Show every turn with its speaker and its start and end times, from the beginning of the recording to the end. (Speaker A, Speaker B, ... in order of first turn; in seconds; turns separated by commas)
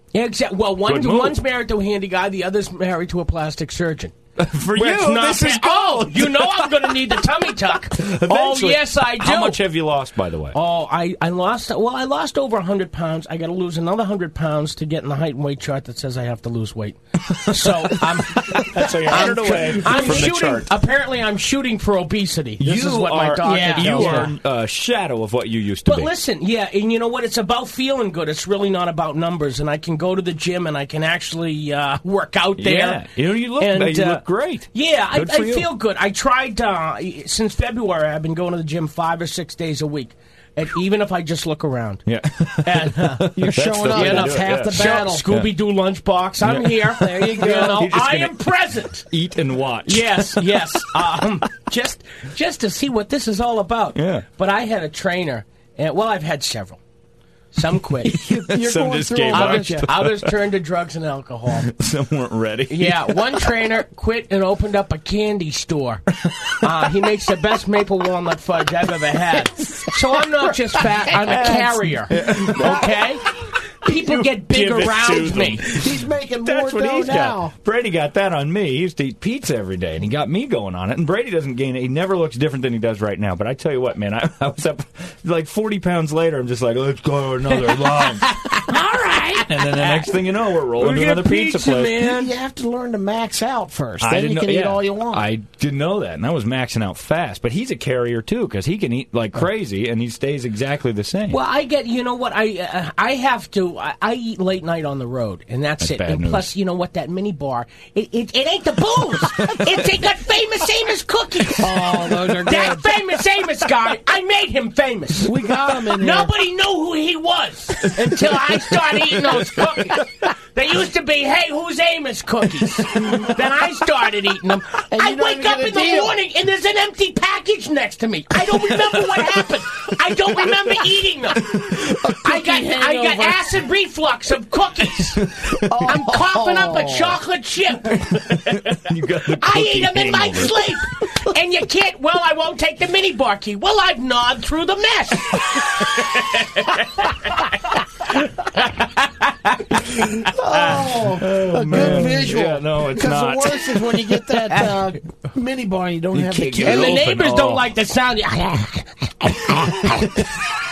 Speaker A: 0.1-4.2, Speaker B: 0.8-1.4, Speaker B: 4.4-10.6, Speaker A: 4.7-9.6, Speaker A: 10.5-24.3, Speaker B: 17.4-20.7, Speaker C: 18.8-20.3, Speaker B: 22.6-26.1, Speaker C: 23.4-24.3, Speaker A: 25.9-42.0, Speaker B: 32.6-35.7, Speaker B: 42.0-45.5, Speaker A: 42.6-43.4, Speaker C: 43.3-45.2, Speaker A: 43.9-49.0, Speaker B: 46.4-48.4, Speaker C: 47.3-47.8, Speaker B: 49.1-51.3, Speaker A: 49.8-56.8, Speaker B: 53.9-54.2, Speaker A: 57.5-58.2, Speaker C: 58.1-59.9, Speaker B: 58.1-60.3, Speaker A: 59.3-61.7, Speaker B: 61.6-63.5, Speaker A: 62.7-66.0, Speaker B: 66.2-66.7, Speaker A: 66.6-73.3, Speaker B: 69.6-69.9, Speaker B: 71.1-92.1, Speaker C: 71.2-71.6, Speaker C: 72.3-72.8, Speaker A: 73.8-75.6, Speaker C: 75.7-77.5, Speaker A: 87.7-90.1, Speaker A: 90.8-92.3, Speaker C: 92.0-95.3, Speaker B: 94.0-101.4, Speaker A: 101.3-115.3, Speaker B: 105.8-106.5, Speaker B: 109.4-109.8, Speaker C: 111.5-113.0, Speaker C: 115.2-116.3, Speaker A: 116.0-131.6, Speaker C: 124.9-126.2, Speaker B: 131.5-132.1, Speaker C: 131.8-133.4, Speaker A: 132.2-135.2, Speaker B: 135.1-135.9, Speaker C: 135.6-137.2, Speaker A: 135.8-138.8, Speaker B: 137.9-140.8, Speaker A: 139.3-149.8, Speaker B: 150.0-153.8, Speaker C: 150.2-157.0, Speaker A: 154.5-154.8, Speaker B: 156.1-157.7, Speaker A: 156.6-160.3